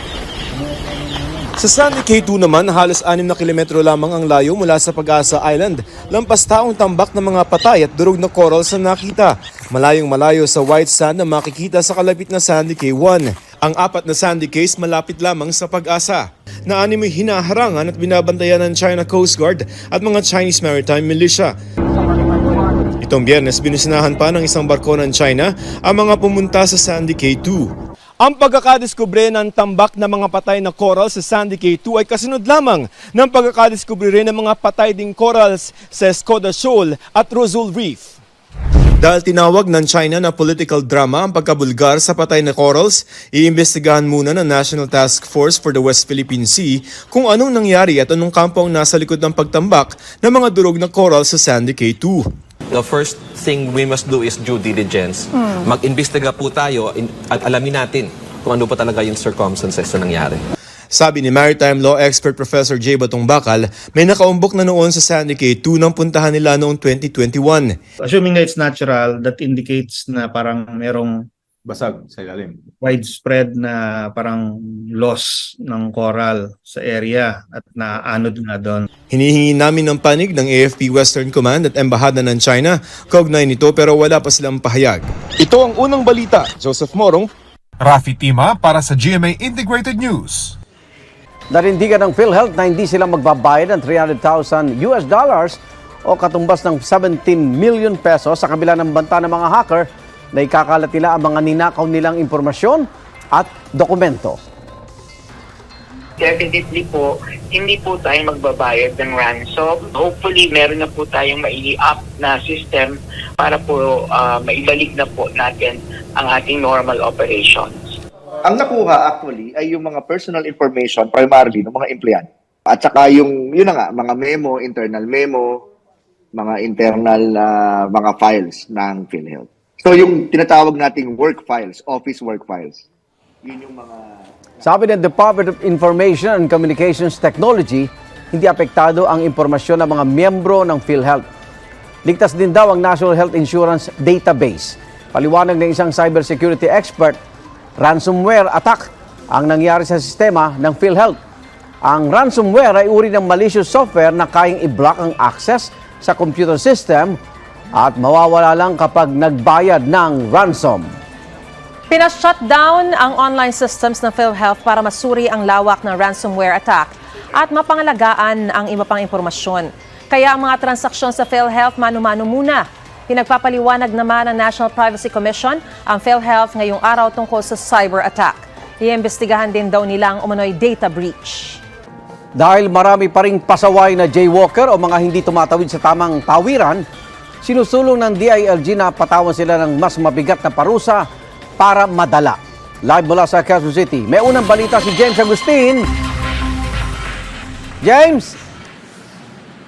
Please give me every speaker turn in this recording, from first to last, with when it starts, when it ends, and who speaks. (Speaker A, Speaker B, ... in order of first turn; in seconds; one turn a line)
Speaker A: 1.6-21.5
Speaker A: 23.0-27.7
Speaker A: 28.2-38.1
Speaker A: 39.0-52.3
Speaker B: 52.7-58.6
Speaker B: 59.3-59.7
Speaker A: 60.9-67.8
Speaker C: 68.1-71.1
Speaker B: 71.7-72.6
Speaker C: 72.8-74.4
Speaker C: 75.0-78.8
Speaker A: 79.1-87.3
Speaker D: 87.8-90.5
Speaker E: 91.5-104.4
Speaker F: 106.2-117.8
Speaker G: 118.4-125.6
Speaker G: 126.3-132.8
Speaker G: 133.4-134.1
Speaker E: 134.6-141.2
Speaker E: 142.0-147.2
Speaker E: 147.8-151.2
Speaker E: 151.8-157.2
Speaker E: 157.7-160.9
Speaker H: 161.9-181.6
Speaker E: 182.3-186.8
Speaker E: 187.4-191.1
Speaker E: 191.6-195.8
Speaker E: 197.8-198.3